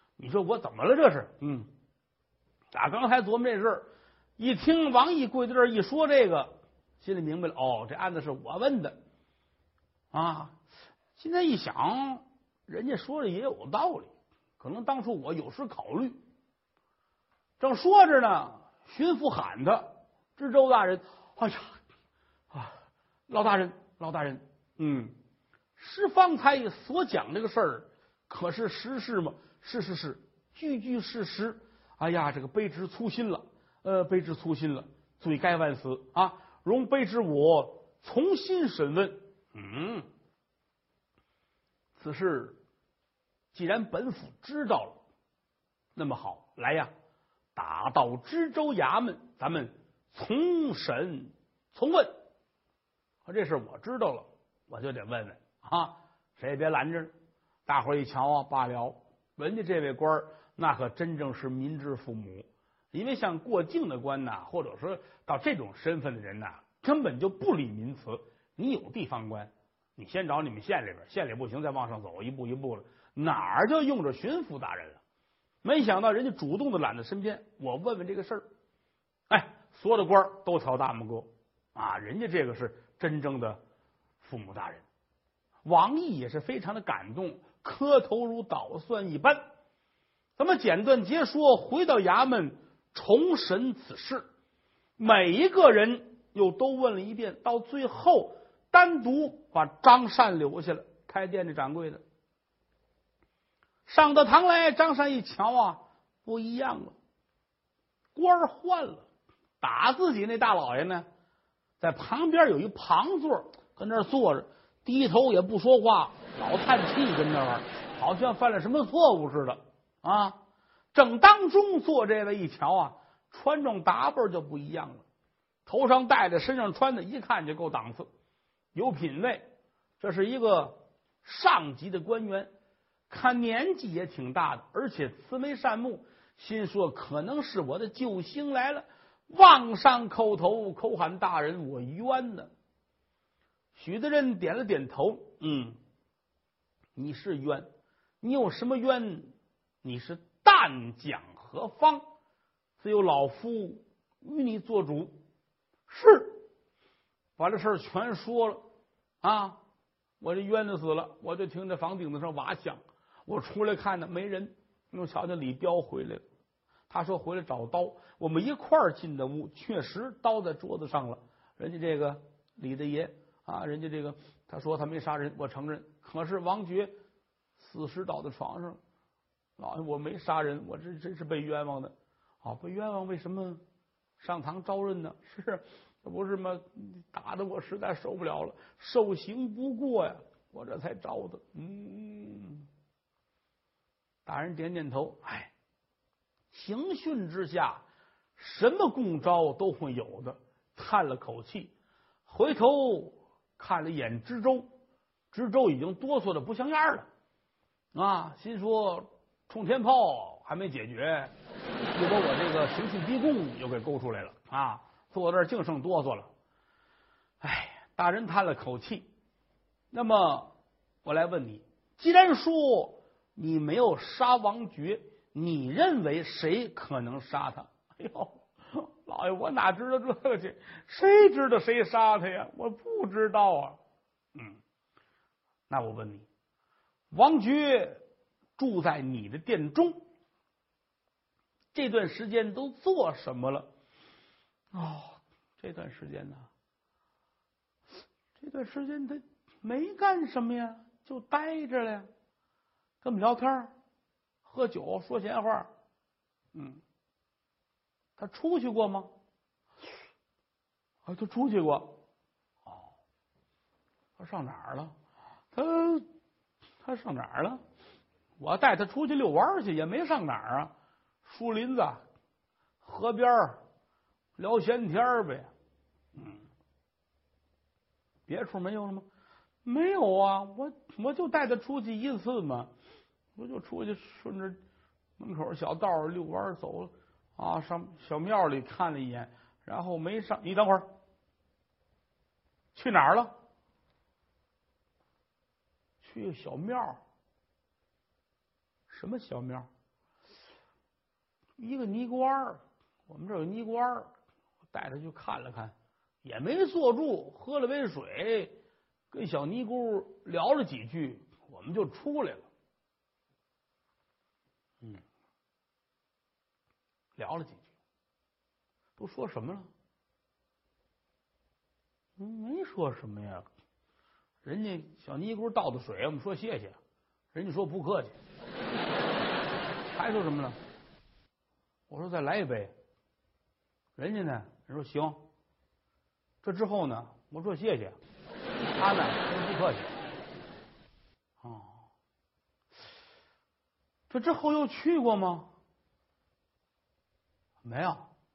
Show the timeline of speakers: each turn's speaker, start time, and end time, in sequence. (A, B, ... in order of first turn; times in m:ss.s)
0:00.2-0:01.7 A
0:02.7-0:09.0 A
0:10.1-0:10.6 A
0:11.2-0:16.2 A
0:17.6-0:21.8 A
0:22.5-0:22.8 A
0:23.3-0:25.1 A
0:25.8-0:40.1 A
0:42.0-0:42.6 A
0:43.5-0:45.0 A
0:46.0-0:46.9 A
0:47.5-0:52.1 A
0:53.2-0:57.1 A
0:57.6-1:15.0 A
1:15.6-1:18.4 A
1:19.3-1:23.6 A
1:24.2-1:24.8 A
1:25.6-1:29.4 A
1:30.4-1:34.2 A
1:35.0-1:42.0 A
1:43.8-1:47.0 A
1:48.1-1:49.0 A
1:49.6-1:51.1 A
1:51.8-2:00.4 A
2:00.9-2:05.0 A
2:05.6-2:08.1 A
2:08.7-2:12.5 A
2:13.1-2:22.5 A
2:23.7-2:25.8 A
2:26.9-2:27.7 A
2:28.2-2:32.0 A
2:32.8-2:35.2 A
2:35.9-2:36.4 A
2:37.4-2:38.6 A
2:39.2-2:39.6 A
2:40.2-2:46.2 A
2:46.9-2:56.9 A
2:57.6-2:58.8 A
2:59.6-3:03.6 A
3:04.2-3:12.7 A
3:14.2-3:15.5 A
3:16.5-3:17.8 A
3:18.4-3:21.7 A
3:22.2-3:24.7 A
3:25.3-3:27.1 A
3:27.9-3:31.3 A
3:31.9-3:36.3 A
3:37.4-3:39.1 A
3:39.9-3:40.5 A
3:41.0-3:53.8 A
3:55.7-3:56.3 A
3:57.1-3:58.0 A
3:58.6-4:00.0 A
4:01.7-4:03.7 A
4:04.7-4:06.5 A
4:08.4-4:12.1 A
4:13.0-4:13.7 A
4:14.4-4:15.7 A
4:16.5-4:16.8 A
4:18.2-4:19.1 A
4:21.0-4:22.0 A
4:24.2-4:24.9 A
4:25.5-4:26.1 A
4:26.8-4:27.6 A
4:28.4-4:30.7 A
4:31.2-4:32.0 A
4:32.8-4:33.6 A
4:34.4-4:35.5 A
4:38.3-4:39.0 A
4:39.6-4:42.7 A
4:43.4-4:44.6 A
4:45.2-4:50.9 A
4:52.7-4:53.3 A
4:56.0-4:57.0 A
4:58.9-4:59.7 A
5:01.6-5:04.1 A
5:04.7-5:08.5 A
5:09.1-5:12.4 A
5:17.2-5:17.7 A
5:19.0-5:19.7 A
5:22.2-5:23.5 A
5:24.4-5:26.8 A
5:27.3-5:28.2 A
5:29.9-5:30.6 A
5:31.9-5:32.7 A
5:34.0-5:35.2 A
5:36.4-5:38.0 A
5:38.8-5:39.9 A
5:41.4-5:41.8 A
5:44.1-5:45.5 A
5:47.6-5:48.1 A